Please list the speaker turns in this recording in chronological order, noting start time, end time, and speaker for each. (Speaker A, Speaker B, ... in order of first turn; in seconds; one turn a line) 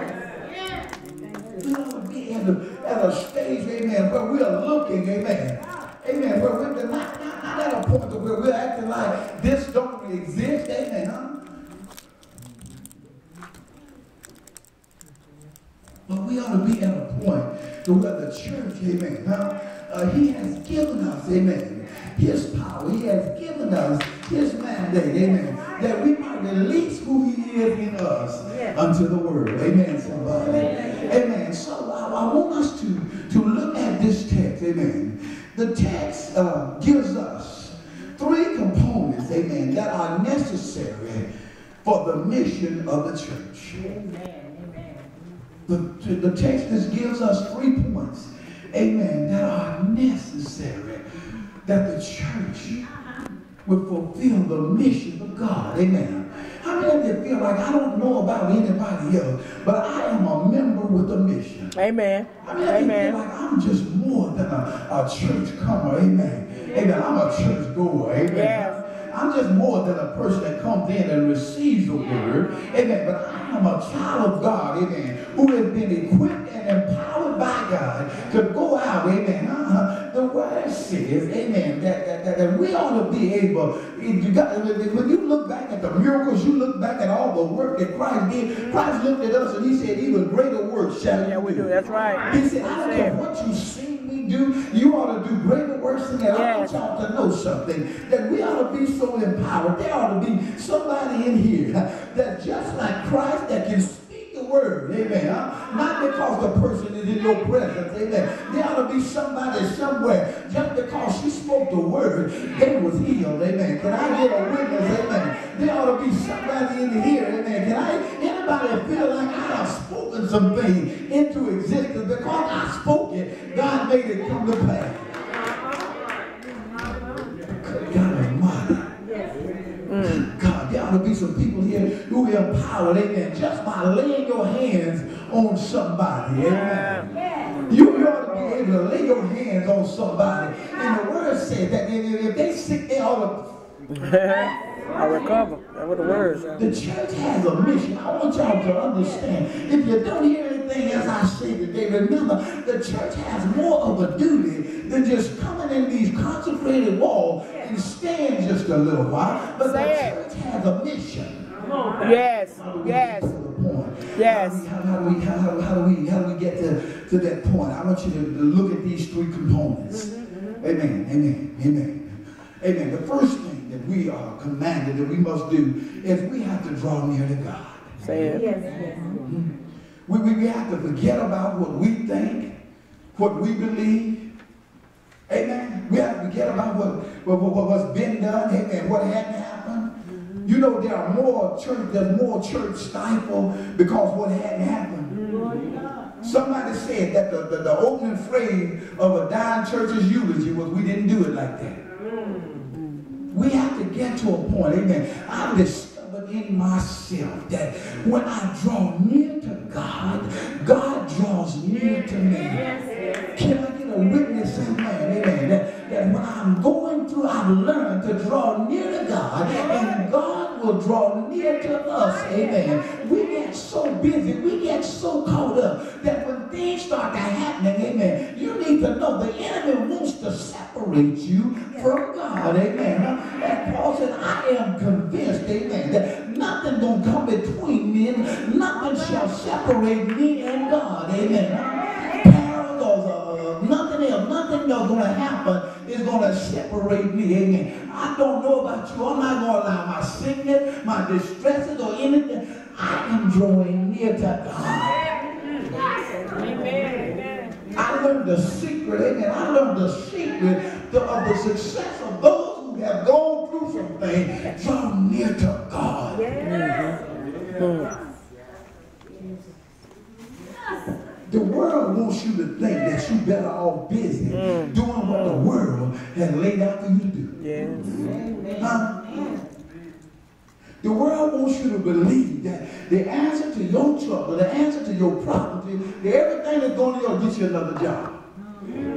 Speaker A: 1.6-11.4
Speaker A: 16.1-41.3
Speaker A: 41.8-43.9
Speaker A: 45.7-51.0
Speaker A: 51.6-52.8
Speaker A: 53.7-61.7
Speaker B: 61.8-63.2
Speaker A: 62.4-91.7
Speaker B: 68.3-68.8
Speaker B: 88.5-88.9
Speaker B: 91.2-93.2
Speaker A: 92.3-125.0
Speaker B: 96.3-96.8
Speaker A: 127.6-128.9
Speaker B: 129.9-130.3
Speaker A: 130.0-137.2
Speaker B: 136.4-137.1
Speaker A: 137.7-143.6
Speaker B: 143.9-146.5
Speaker A: 146.6-161.4
Speaker B: 159.6-160.2
Speaker B: 162.0-163.3
Speaker A: 162.6-178.3
Speaker B: 164.2-164.7
Speaker B: 178.0-178.5
Speaker C: 178.3-179.2
Speaker A: 179.2-179.5
Speaker A: 180.1-182.6
Speaker A: 183.2-184.3
Speaker A: 185.3-189.9
Speaker A: 190.4-195.2
Speaker A: 196.2-201.8
Speaker A: 203.3-212.7
Speaker A: 213.3-255.0
Speaker A: 257.8-266.3
Speaker B: 266.4-267.0
Speaker B: 267.6-267.9
Speaker A: 271.3-277.4
Speaker B: 274.3-275.5
Speaker B: 277.4-278.1
Speaker C: 278.0-279.5
Speaker A: 278.6-279.0
Speaker A: 280.8-288.2